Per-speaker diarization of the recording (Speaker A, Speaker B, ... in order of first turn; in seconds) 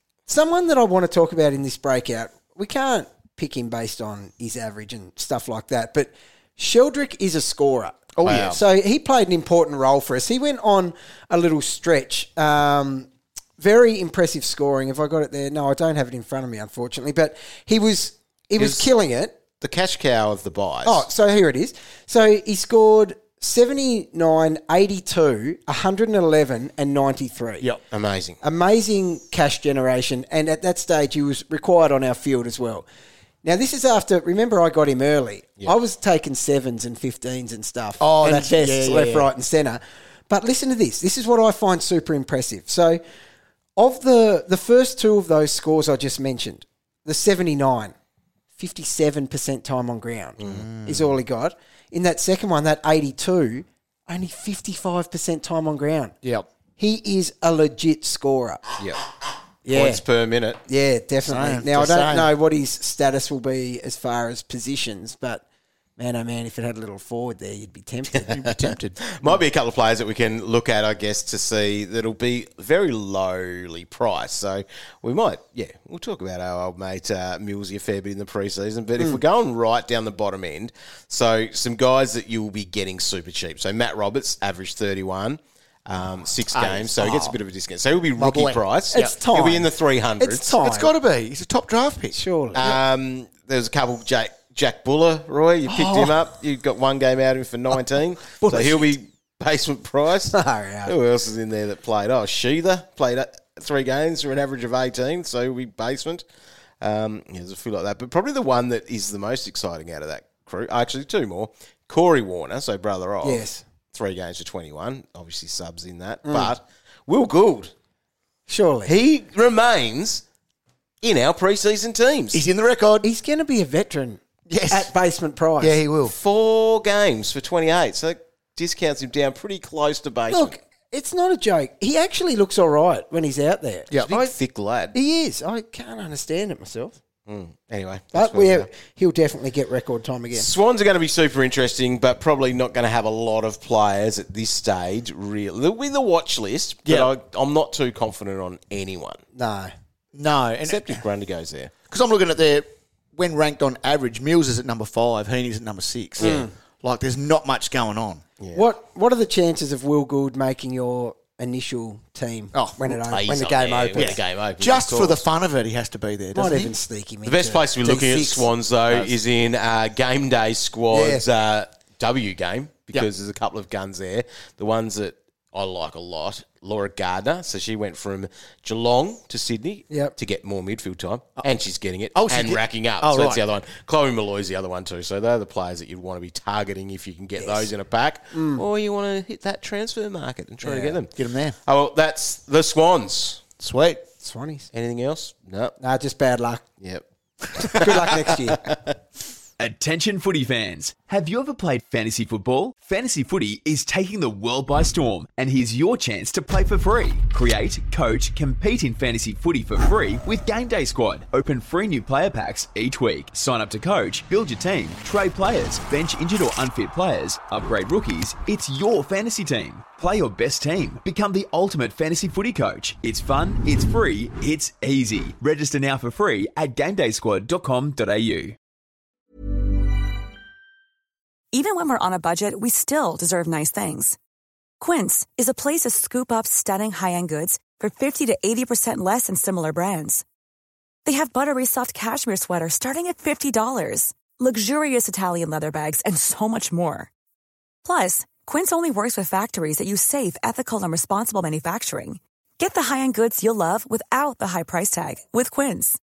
Speaker A: 0.3-13.1, 13.6-19.3, 20.8-27.7, 28.4-32.8, 33.4-43.0, 43.8-47.9, 48.6-56.1, 56.8-58.6, 59.6-60.0, 60.7-65.4, 66.0-68.5, 86.5-87.3, 88.9-90.9, 92.1-92.8, 95.7-96.2, 98.5-98.8, 100.3-100.9, 113.2-113.6, 116.2-116.5, 118.5-118.9, 123.0-125.8, 130.3-134.3, 134.9-136.9, 138.1-140.5, 149.3-149.7, 156.2-156.5, 158.5-164.2, 166.3-168.5, 170.9-171.2, 179.9-180.1, 187.4-187.7, 188.3-188.6, 190.6-191.0, 194.2-194.7, 195.8-196.6, 197.8-198.6
Speaker B: 8.1-8.6, 38.0-39.3, 50.5-51.1, 61.2-62.3, 68.5-69.4, 88.2-89.1, 90.6-92.2, 122.3-123.1, 124.5-124.9, 125.6-126.1, 146.8-147.1, 150.1-151.0, 151.9-158.2, 162.5-163.0, 163.9-166.8, 182.1-183.4, 191.1-191.6, 193.6-194.0
Speaker C: 8.2-8.6, 18.6-18.9, 19.6-21.1, 27.6-28.4, 50.4-50.6, 58.8-59.0, 59.7-60.6, 68.1-90.6, 92.5-106.2, 106.8-117.7, 118.8-120.2, 121.0-122.4, 126.0-130.6, 134.0-134.9, 137.3-138.7, 140.3-149.2, 150.6-151.7, 158.4-158.7, 163.1-165.2, 167.2-193.4, 194.7-195.8, 197.7-198.9
Speaker D: 199.6-228.6
Speaker E: 231.5-234.2, 234.8-240.2, 241.1-247.1, 247.8-256.0